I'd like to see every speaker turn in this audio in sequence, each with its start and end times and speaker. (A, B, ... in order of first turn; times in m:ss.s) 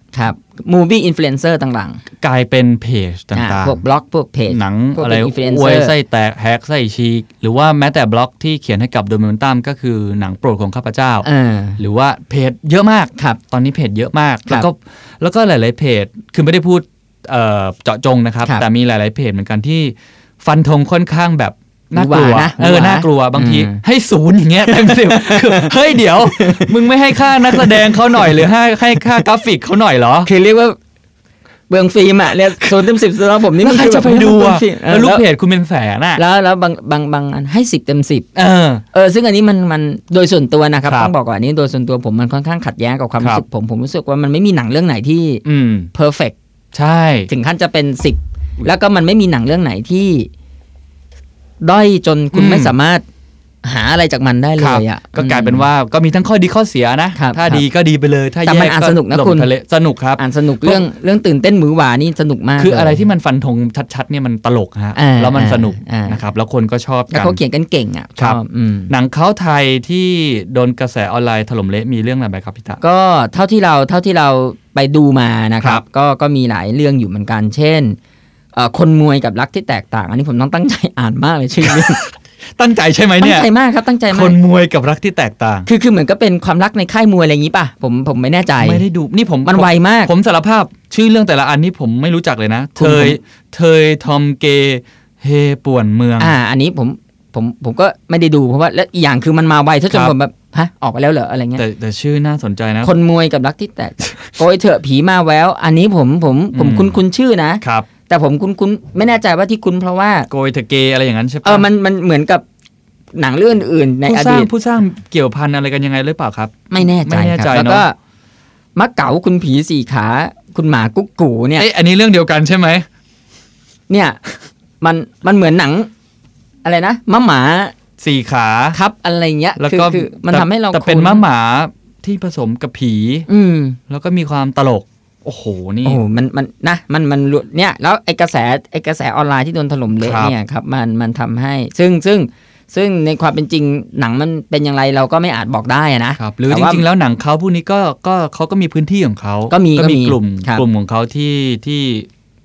0:00.1-0:02.0 A
0:02.2-0:03.8 B
0:03.3-0:05.9 A
0:04.5-0:11.2 B
0:11.2-0:11.8 A
0:11.8-0:30.3 B
0:21.9-0:23.8 A
0:24.6-0:28.4 A
0:30.2-0:30.8 A
0:31.7-0:35.2 A
0:33.5-0:36.2 B
0:36.2-0:38.3 A
0:38.3-0:38.8 B
0:38.9-0:45.4 A
0:40.8-0:41.1 B
0:43.2-0:43.4 B
0:45.4-0:45.9 B
0:45.9-0:46.3 A
0:46.7-0:47.3 B
0:47.3-0:50.3 A
0:51.6-0:53.0 A
0:52.3-0:52.7 B
0:53.6-0:55.6 A
0:54.6-1:00.8 B
0:57.1-0:57.6 A
0:58.4-0:59.5 A
1:00.2-1:03.0 A
1:02.6-1:07.4 B
1:04.9-1:06.2 A
1:07.1-1:08.9 A
1:08.2-1:12.8 B
1:12.8-1:18.0 A
1:18.5-1:22.0 A
1:21.6-1:23.5 B
1:23.2-1:24.4 A
1:24.1-1:25.7 B
1:25.7-1:28.8 A
1:28.6-1:36.3 B
1:29.4-1:30.1 A
1:32.8-1:33.2 A
1:36.2-1:41.6 A
1:41.6-1:42.9 B
1:42.8-1:50.3 A
1:46.5-1:47.0 B
1:47.6-1:47.9 B
1:50.3-1:51.7 B
1:51.4-1:52.4 A
1:53.2-1:54.5 A
1:54.0-1:57.8 B
1:56.7-1:57.9 A
1:58.8-2:01.7 A
2:01.6-2:02.9 B
2:03.9-2:04.2 A
2:04.8-2:05.9 A
2:06.6-2:07.7 A
2:08.0-2:08.8 B
2:08.7-2:11.2 A
2:09.6-2:13.3 B
2:13.3-2:13.8 A
2:13.9-2:16.0 B
2:15.8-2:26.8 A
2:20.0-2:20.3 B
2:26.2-2:32.1 B
2:29.5-2:30.6 A